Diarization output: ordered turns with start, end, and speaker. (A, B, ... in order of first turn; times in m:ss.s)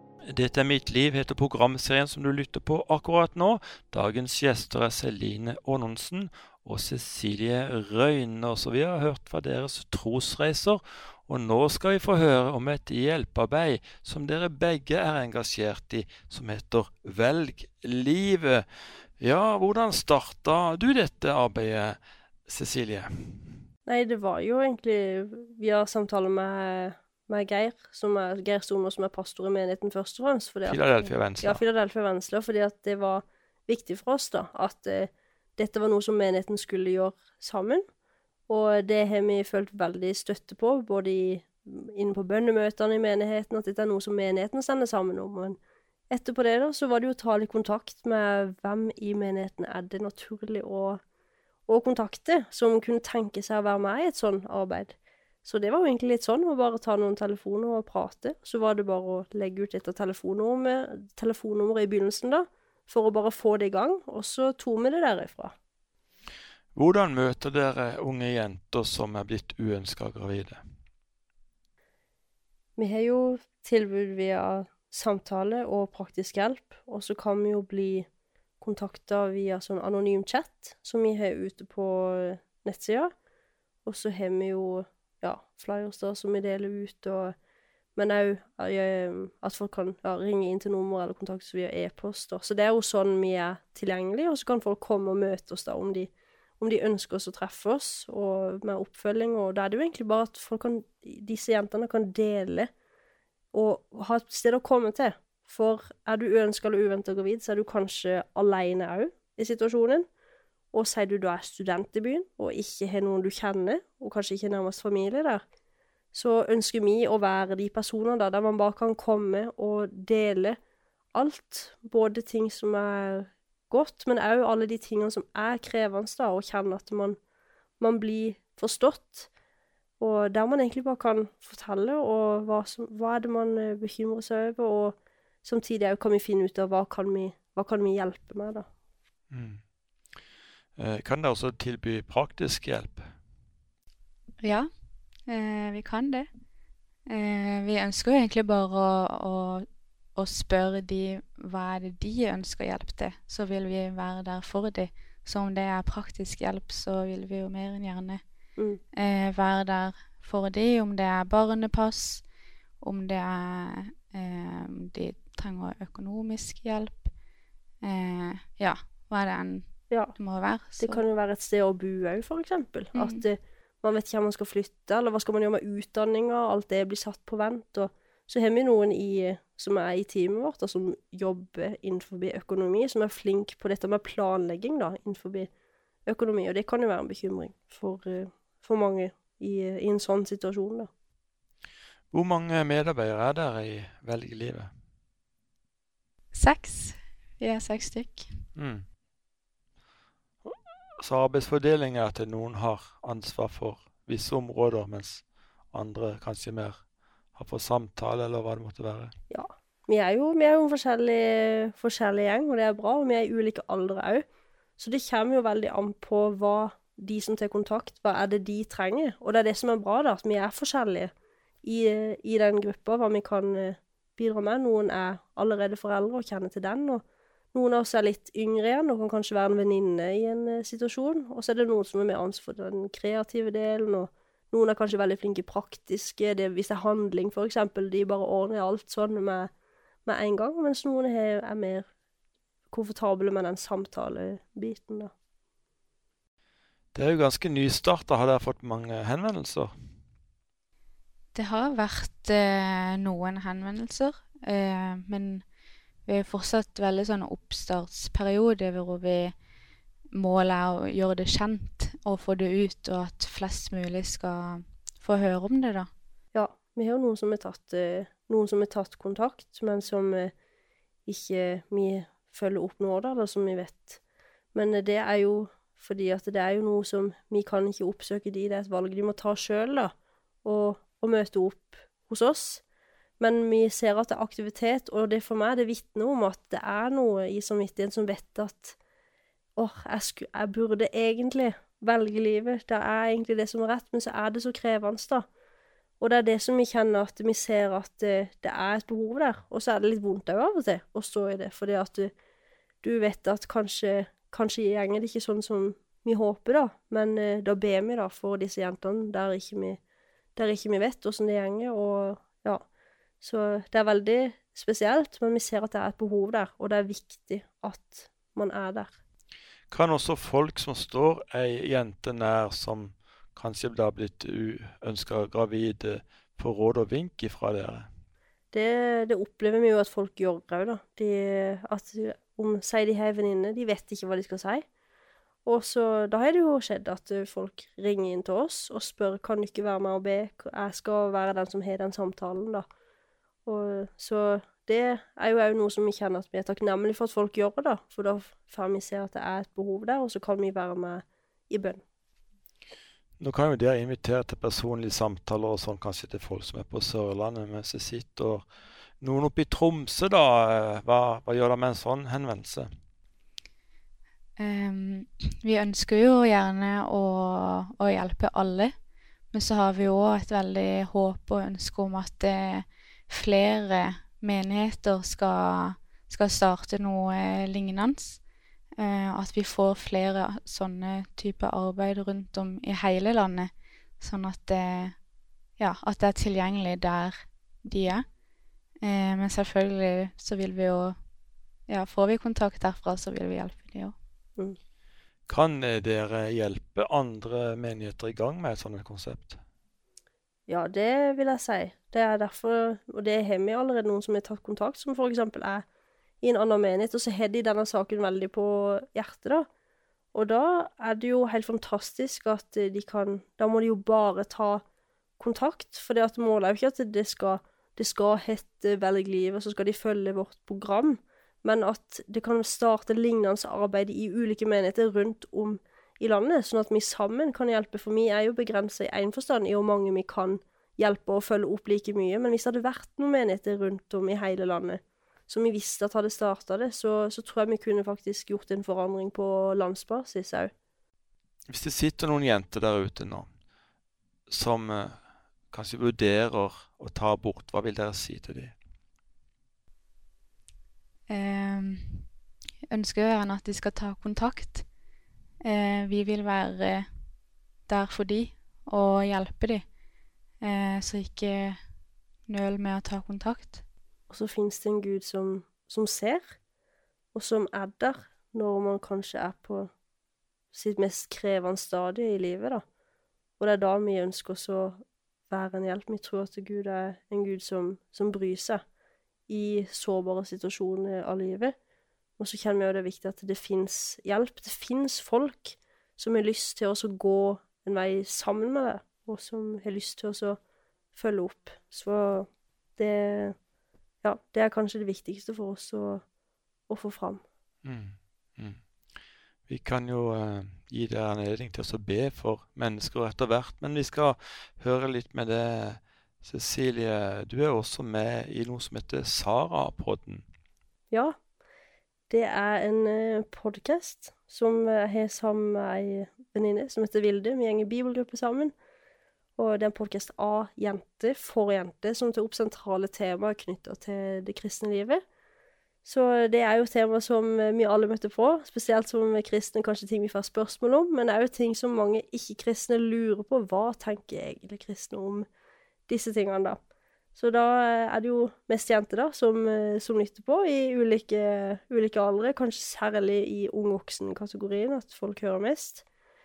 0:00.2-0:18.6 A
0:19.2-0:23.6 A
0:23.8-0:37.8 B
0:30.6-0:31.6 A
0:38.5-0:45.6 B
0:46.1-0:51.0 B
0:51.7-1:05.5 B
1:06.7-1:10.6 A
1:12.8-1:18.1 B
1:18.6-1:23.1 B
1:23.8-1:27.3 B
1:28.0-1:42.7 B
1:43.5-1:50.0 B
1:50.7-1:55.4 B
1:56.1-2:00.6 B
2:01.1-2:07.2 B
2:07.8-2:09.3 B
2:10.0-2:18.6 B
2:19.3-2:19.6 A
2:20.8-2:23.1 A
2:24.4-2:24.7 C
2:25.3-2:26.3 C
2:27.1-2:38.2 C
2:38.9-2:42.2 C
2:42.8-2:47.1 C
2:47.8-2:51.0 C
2:50.8-3:05.5 B
2:52.9-2:53.2 C
3:06.0-3:10.9 B
3:12.1-3:14.7 A
3:16.3-3:18.3 C
3:18.6-3:18.8 A
3:20.4-3:26.8 A
3:27.3-3:29.1 A
3:29.3-3:34.2 B
3:34.8-3:41.1 B
3:41.6-3:59.5 B
4:00.0-4:01.9 B
4:02.7-4:05.1 B
4:06.9-4:09.7 A
4:11.3-4:15.4 C
4:16.0-4:19.3 C
4:20.1-4:25.9 C
4:26.3-4:30.3 B
4:31.0-4:34.0 B
4:34.5-4:39.9 B
4:40.4-4:42.6 B
4:43.2-4:48.8 B
4:49.6-4:55.2 B
4:56.0-5:02.1 B
5:02.8-5:09.8 B
5:10.4-5:12.6 B
5:13.2-5:18.9 B
5:19.7-5:27.9 A
5:28.5-5:34.6 B
5:35.4-5:42.6 B
5:43.4-5:51.8 B
5:53.2-5:58.5 A
5:59.0-6:02.7 A
6:04.4-6:08.7 C
6:09.3-6:18.2 C
6:18.8-6:25.0 C
6:25.6-6:28.0 C
6:28.8-6:31.0 C
6:31.7-6:33.9 C
6:35.3-6:39.4 A
6:40.5-6:45.6 B
6:46.2-6:49.5 B
6:50.1-6:54.6 B
6:55.2-7:20.5 B
7:21.5-7:23.3 A
7:24.3-7:25.0 A
7:25.5-7:28.5 A
7:31.1-7:32.1 C
7:32.7-7:34.6 C
7:35.4-7:36.9 C
7:37.7-7:39.6 C
7:40.4-7:41.6 C
7:42.3-7:43.6 C
7:44.1-7:46.3 B
7:47.1-7:49.7 B
7:50.5-7:52.6 B
7:53.4-7:54.8 B
7:55.3-7:58.6 B
7:59.3-8:01.5 B
8:02.2-8:10.4 B
8:10.9-8:13.4 B
8:14.0-8:16.0 B
8:16.7-8:17.2 B
8:17.6-8:18.6 A
8:19.5-8:30.2 A
8:30.9-8:31.2 B
8:32.1-8:38.5 B
8:39.4-8:45.0 B
8:45.8-8:55.2 B
8:55.9-8:56.6 B
8:57.1-9:05.8 B